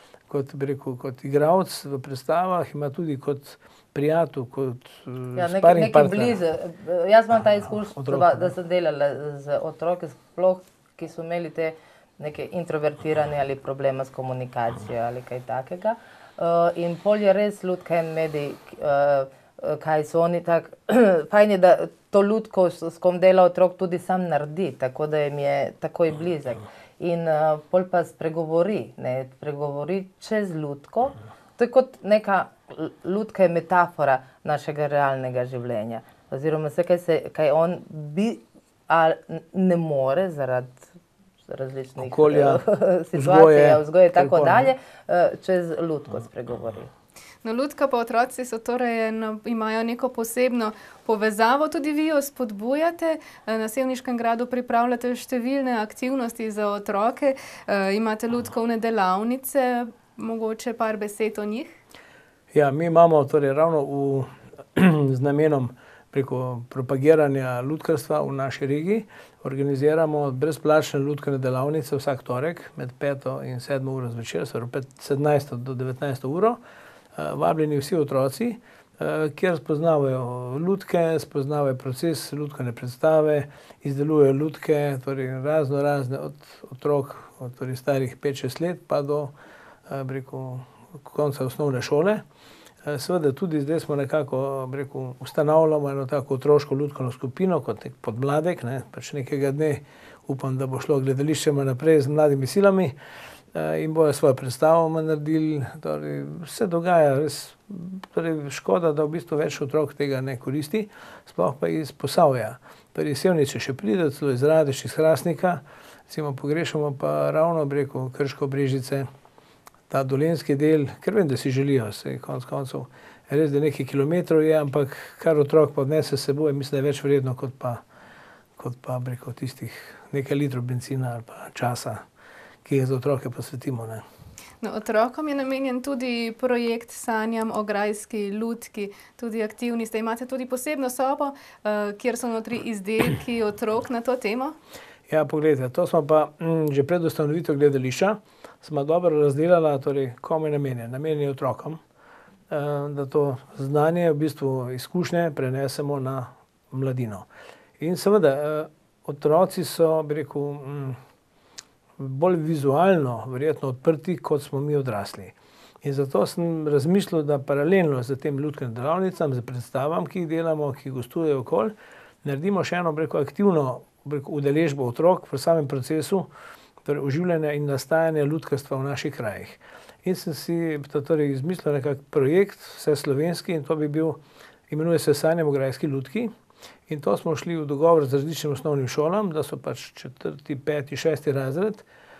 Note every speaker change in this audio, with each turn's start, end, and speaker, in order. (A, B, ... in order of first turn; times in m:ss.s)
0:00.3-0:06.4 A
0:05.4-0:40.9 B
0:07.9-0:08.5 A
0:41.5-0:46.9 B
0:42.0-0:44.7 A
0:47.4-1:01.7 C
1:02.5-1:16.6 A
1:17.1-1:29.3 A
1:29.9-1:32.2 A
1:32.8-1:42.9 A
1:43.5-1:59.1 A
1:59.9-2:07.8 A
2:08.6-2:12.0 A
2:12.6-2:14.0 A
2:14.6-2:24.5 C
2:25.1-2:31.8 A
2:32.5-2:37.3 A
2:37.8-2:41.0 A
2:42.0-2:51.7 A
2:52.2-2:56.3 A
2:56.8-3:04.2 A
3:04.7-3:06.3 A
3:06.9-3:11.8 A